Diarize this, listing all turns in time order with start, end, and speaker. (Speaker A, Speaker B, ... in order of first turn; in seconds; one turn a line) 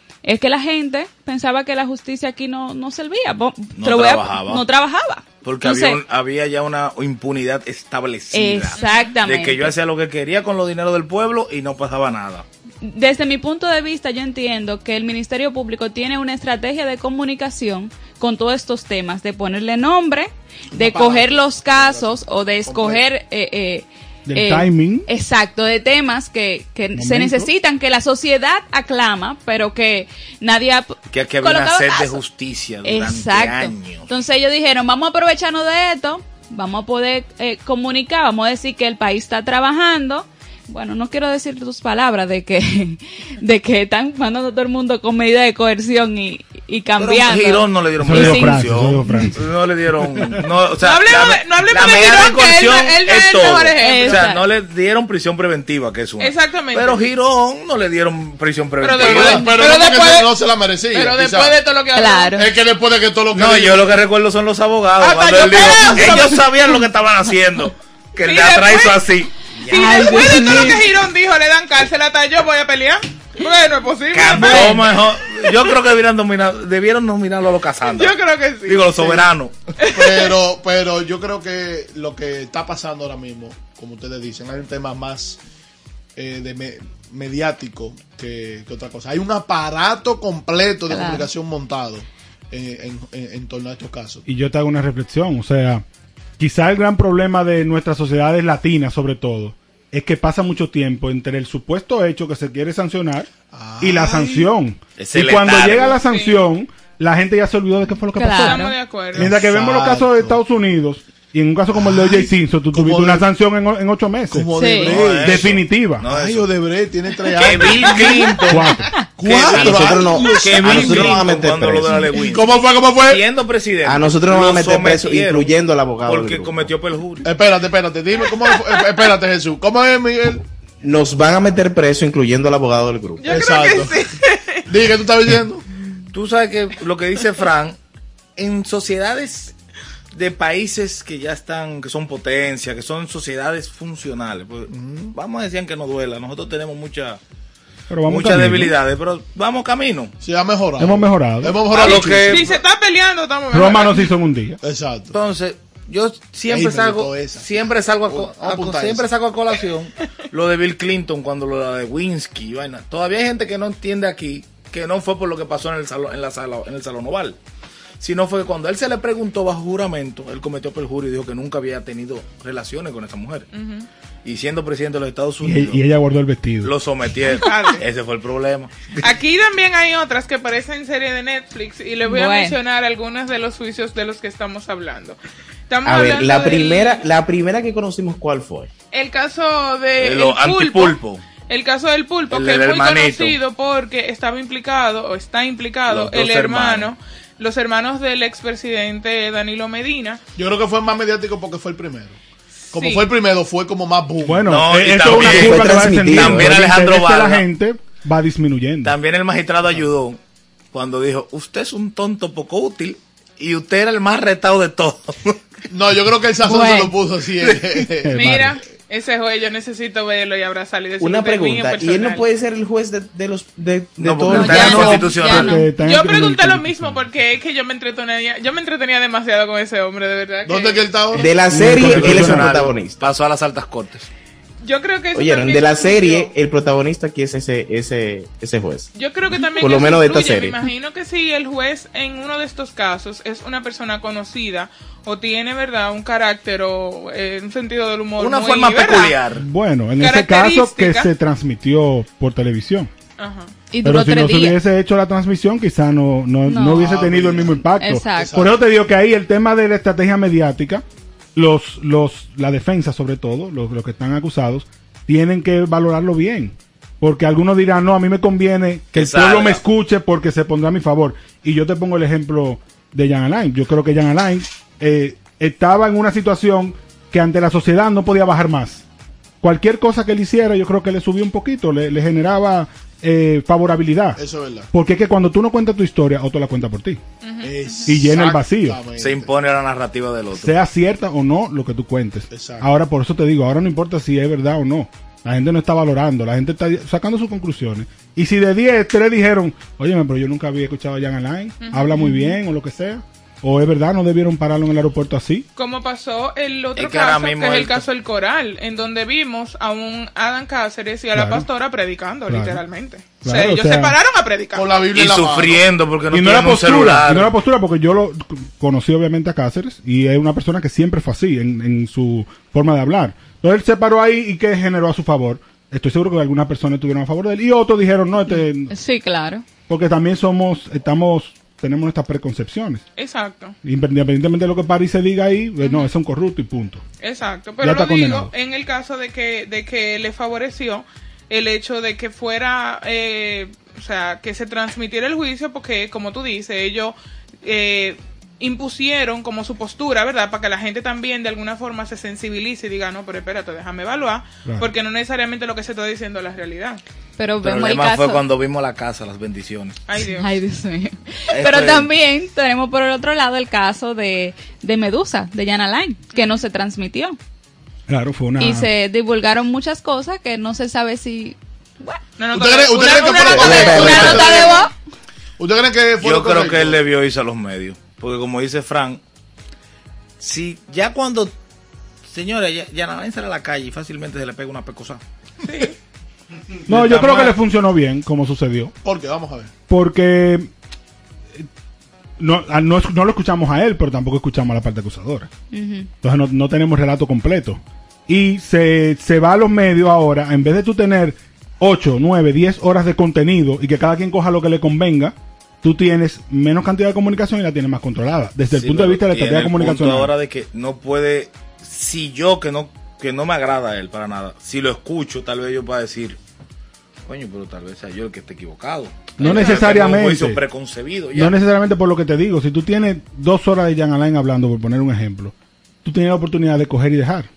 Speaker A: 0.2-6.0
Speaker B: 3.8-4.6
Speaker B: 5.4-12.4
Speaker A: 8.3-9.7
Speaker A: 12.8-32.2
Speaker C: 20.7-23.1
Speaker D: 24.3-25.1
Speaker D: 26.9-27.5
Speaker B: 31.1-34.1
Speaker A: 32.8-48.6
Speaker B: 47.0-59.5
Speaker D: 48.0-49.4
Speaker E: 50.8-54.3
Speaker A: 53.8-54.4
Speaker E: 56.2-57.1
Speaker E: 58.8-60.3
Speaker C: 59.0-61.6
Speaker E: 60.9-62.4
Speaker A: 61.9-62.5
Speaker C: 62.4-63.9
Speaker B: 63.3-70.1
Speaker E: 65.0-66.4
Speaker A: 65.9-66.2
Speaker E: 68.2-69.1
Speaker E: 69.7-74.9
Speaker A: 69.7-70.8
Speaker B: 74.1-79.5
Speaker A: 74.3-74.8
Speaker E: 77.8-79.2
Speaker E: 79.8-80.3
Speaker C: 79.9-85.4
Speaker C: 86.2-94.2
Speaker A: 90.9-91.3
Speaker D: 94.2-95.8
Speaker D: 96.4-103.3
Speaker C: 103.5-104.5
Speaker D: 103.8-114.5
Speaker B: 105.0-106.0
Speaker E: 106.1-106.4
Speaker A: 108.1-108.8
Speaker E: 108.3-109.3
Speaker C: 109.1-110.3
Speaker C: 111.7-113.2
Speaker C: 114.3-118.3
Speaker A: 114.5-115.0
Speaker B: 114.8-116.5
Speaker D: 115.1-116.0
Speaker B: 117.3-127.3
Speaker A: 117.9-118.3
Speaker D: 118.5-118.9
Speaker C: 119.2-121.3
Speaker F: 119.5-122.1
Speaker C: 122.2-123.2
Speaker F: 123.8-126.7
Speaker C: 127.2-130.4
Speaker F: 130.8-133.3
Speaker E: 133.2-134.7
Speaker C: 133.3-134.0
Speaker C: 134.7-135.6
Speaker B: 136.1-137.8
Speaker B: 138.4-139.5
Speaker B: 140.1-147.2
Speaker C: 144.7-145.1
Speaker D: 147.9-148.8
Speaker B: 148.0-150.1
Speaker C: 150.2-152.6
Speaker D: 150.8-151.6
Speaker B: 151.7-152.5
Speaker E: 151.8-154.1
Speaker D: 153.5-154.6
Speaker C: 154.6-155.2
Speaker B: 155.1-167.4
Speaker C: 156.5-157.5
Speaker C: 158.1-159.1
Speaker B: 168.0-173.5
Speaker E: 173.5-173.9
Speaker B: 174.2-175.8
Speaker D: 175.4-176.7
Speaker B: 176.6-178.7
Speaker E: 177.3-177.8
Speaker E: 179.0-185.2
Speaker A: 182.1-182.6
Speaker E: 185.7-187.1
Speaker F: 185.8-188.7
Speaker E: 188.9-200.2
Speaker B: 190.0-191.2
Speaker B: 192.3-193.4
Speaker B: 195.9-196.9
Speaker C: 200.3-202.2
Speaker C: 202.7-204.5
Speaker E: 202.7-203.0
Speaker D: 204.2-208.9
Speaker B: 204.5-207.4
Speaker F: 205.0-206.5
Speaker B: 208.8-210.2
Speaker B: 210.7-215.4
Speaker C: 215.7-218.3
Speaker A: 216.4-216.9
Speaker D: 218.0-218.6
Speaker E: 218.1-222.2
Speaker F: 221.0-225.1
Speaker B: 224.0-225.6
Speaker A: 224.3-225.7
Speaker D: 224.7-227.1
Speaker E: 225.8-230.8
Speaker C: 230.4-231.3
Speaker F: 231.1-233.0
Speaker D: 231.5-232.6
Speaker B: 231.6-234.1
Speaker E: 234.6-236.3
Speaker F: 235.1-240.6
Speaker E: 238.9-249.2
Speaker B: 248.2-249.4
Speaker D: 249.3-252.9
Speaker E: 250.0-251.1
Speaker E: 253.2-253.5
Speaker A: 253.7-254.6
Speaker D: 253.8-260.8
Speaker A: 256.4-256.9
Speaker C: 256.8-258.6
Speaker A: 257.7-258.4
Speaker D: 261.3-278.8
Speaker B: 268.9-269.6
Speaker D: 279.4-284.2
Speaker C: 284.1-284.7
Speaker D: 284.7-287.0
Speaker E: 287.2-287.9
Speaker C: 287.4-289.3
Speaker D: 287.9-288.8
Speaker B: 289.0-290.6
Speaker D: 290.3-305.4
Speaker C: 292.3-292.7
Speaker E: 301.6-302.1
Speaker E: 305.6-314.6
Speaker B: 306.8-307.9
Speaker D: 311.1-311.5
Speaker D: 312.3-312.6
Speaker D: 313.2-314.0
Speaker C: 314.5-315.6
Speaker B: 314.9-317.3
Speaker D: 316.1-328.7
Speaker A: 328.7-329.4
Speaker D: 329.7-332.8
Speaker E: 333.0-333.6
Speaker D: 333.6-336.8
Speaker E: 337.0-356.8
Speaker D: 337.6-338.3
Speaker D: 354.4-354.7
Speaker A: 357.2-358.2
Speaker B: 357.4-359.8
Speaker E: 359.9-360.4
Speaker A: 360.1-367.1
Speaker B: 361.3-361.9
Speaker E: 366.1-366.4
Speaker D: 367.9-368.7
Speaker A: 368.4-372.0
Speaker E: 372.2-374.6
Speaker C: 372.3-374.6
Speaker F: 373.2-374.4
Speaker A: 373.6-374.7
Speaker C: 375.4-376.8
Speaker B: 376.0-379.0
Speaker B: 380.2-381.3
Speaker B: 382.1-385.0
Speaker E: 385.4-385.7
Speaker B: 386.7-387.4
Speaker D: 386.7-388.7
Speaker C: 388.8-389.5
Speaker D: 389.7-390.5
Speaker D: 392.2-395.3
Speaker A: 395.5-395.9
Speaker D: 396.0-410.1
Speaker B: 408.5-416.2
Speaker B: 417.1-421.4
Speaker D: 419.2-420.4
Speaker E: 419.2-419.8
Speaker D: 421.1-427.3